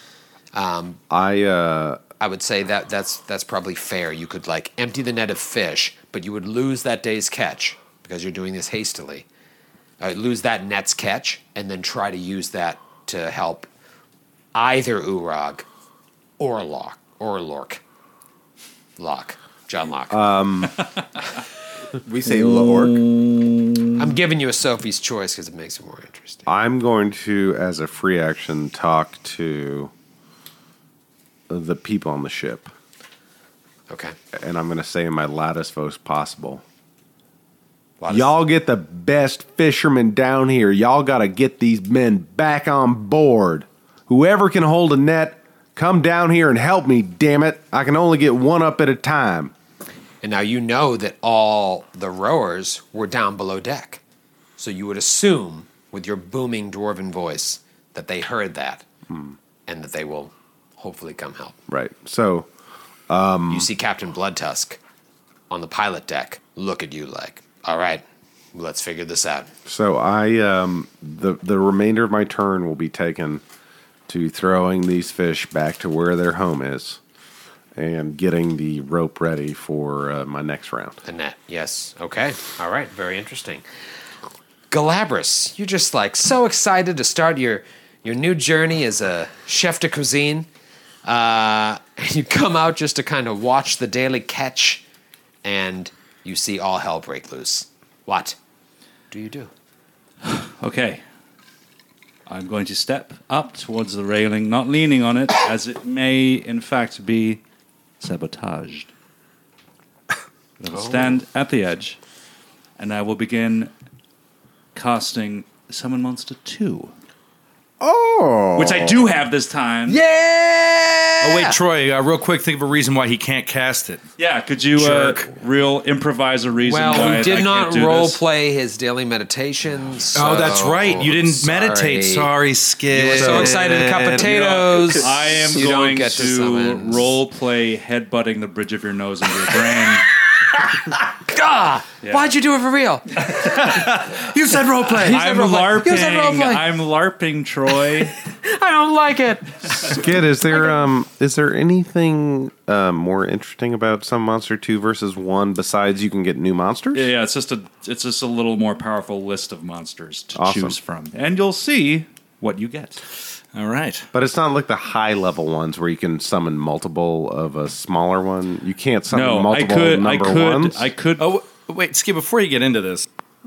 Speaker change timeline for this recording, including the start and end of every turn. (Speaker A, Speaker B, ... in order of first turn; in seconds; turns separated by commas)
Speaker A: 0.5-1.0, Speaker B: 1.1-2.0, Speaker A: 2.2-9.2, Speaker A: 10.0-13.7, Speaker A: 14.5-15.7, Speaker A: 16.4-17.8, Speaker A: 19.0-20.2, Speaker B: 20.1-20.8, Speaker C: 22.0-23.0, Speaker D: 22.3-23.8, Speaker A: 23.9-26.5, Speaker B: 26.4-29.9, Speaker B: 31.5-32.7, Speaker A: 33.9-34.1, Speaker B: 34.3-36.6, Speaker A: 38.0-38.4, Speaker B: 38.1-49.5, Speaker A: 50.2-54.0, Speaker A: 54.6-58.8, Speaker B: 59.1-59.3, Speaker A: 59.7-61.6, Speaker B: 61.7-62.5, Speaker B: 63.1-63.7, Speaker A: 63.5-64.8, Speaker A: 65.5-69.5, Speaker B: 69.7-73.4, Speaker B: 74.1-77.0, Speaker B: 77.7-81.0, Speaker A: 81.0-83.6, Speaker A: 84.7-90.5, Speaker A: 91.0-94.8, Speaker A: 95.4-98.4, Speaker A: 99.1-99.5, Speaker E: 100.2-101.0, Speaker E: 102.3-107.4, Speaker E: 108.0-108.9, Speaker E: 110.6-112.0, Speaker A: 110.7-111.2, Speaker E: 112.8-113.7, Speaker E: 114.7-116.9, Speaker C: 117.8-119.1, Speaker E: 118.5-120.0, Speaker D: 119.9-120.7, Speaker A: 120.7-121.6, Speaker D: 121.2-124.0, Speaker E: 124.2-128.2, Speaker D: 124.8-125.2, Speaker A: 126.6-132.3, Speaker D: 126.8-127.4, Speaker D: 130.1-134.9, Speaker A: 132.9-137.2, Speaker E: 134.2-140.1, Speaker A: 140.9-143.4, Speaker E: 143.2-144.1, Speaker D: 143.7-145.2, Speaker A: 144.8-146.6, Speaker E: 145.0-148.1, Speaker A: 148.2-150.7, Speaker B: 149.8-157.1, Speaker E: 156.9-163.0, Speaker B: 160.3-160.8, Speaker D: 163.5-164.1, Speaker B: 164.1-170.9, Speaker E: 169.1-171.3, Speaker D: 171.2-173.1